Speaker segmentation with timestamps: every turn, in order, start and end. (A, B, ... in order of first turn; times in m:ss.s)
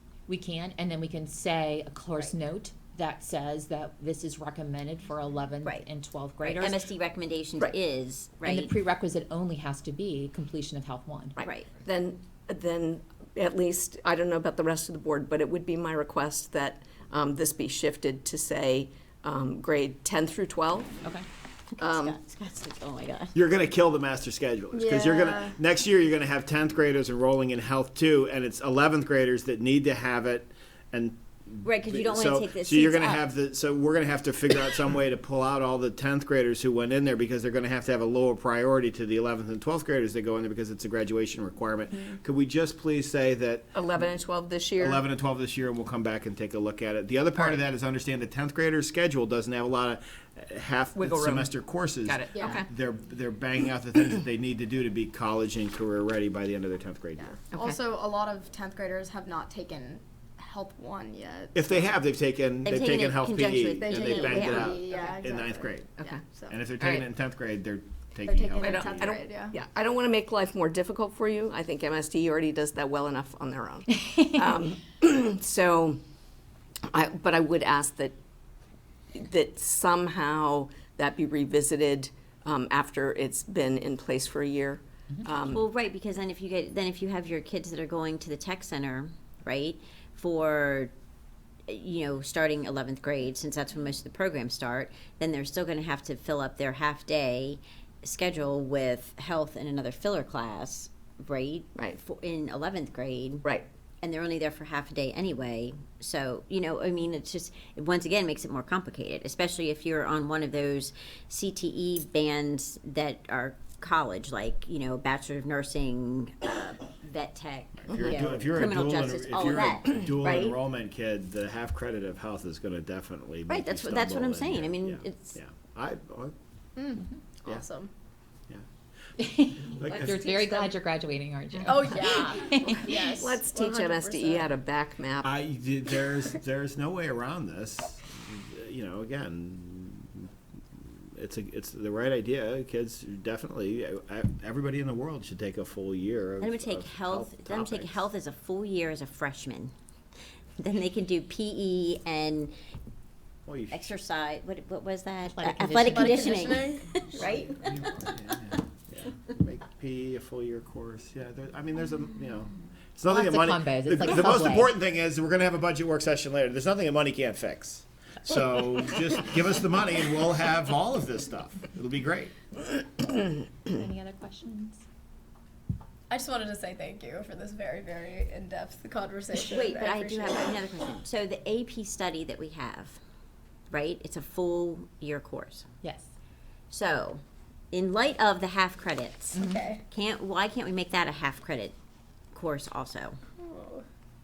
0:00.3-0:06.9 A
0:06.4-0:08.7 B
0:08.4-0:11.4 A
0:11.4-0:20.9 C
0:11.4-0:11.7 B
0:21.7-0:23.4 B
0:21.8-0:22.2 C
0:23.3-0:43.8 D
0:24.7-0:25.6 E
0:31.6-0:33.3 B
0:43.7-0:45.0 C
0:44.8-0:57.4 D
0:51.0-0:52.7 C
0:52.3-0:52.6 E
0:57.2-1:01.9 E
0:57.5-0:57.8 C
1:01.5-1:05.9 D
1:02.6-1:04.8 B
1:03.8-1:06.6 E
1:06.5-1:09.2 D
1:06.8-1:07.0 C
1:08.2-1:09.5 E
1:08.6-1:16.0 C
1:16.9-1:18.1 C
1:19.1-1:25.6 C
1:25.4-1:30.9 B
1:31.7-1:43.4 B
1:44.0-2:00.6 B
1:57.8-2:06.3 D
2:03.5-2:05.4 B
2:06.8-2:07.9 E
2:09.2-2:12.8 A
2:09.8-2:10.3 D
2:10.3-2:10.6 E
2:11.6-2:14.5 E
2:12.6-2:15.3 C
2:15.2-2:20.3 D
2:21.1-2:28.1 D
2:26.4-2:29.7 B
2:30.6-2:32.5 B
2:33.4-2:33.9 D
2:33.7-2:37.7 B
2:35.3-2:36.4 A
2:35.8-2:37.4 E
2:37.5-2:52.3 D
2:43.0-2:44.7 A
2:53.7-2:54.8 A
2:56.1-3:00.6 E
2:59.4-3:03.0 B
3:03.7-3:05.6 B
3:05.8-3:06.1 A
3:06.7-3:11.7 B
3:09.3-3:09.6 A
3:09.3-3:09.8 E
3:12.3-3:13.2 B
3:13.4-3:13.8 E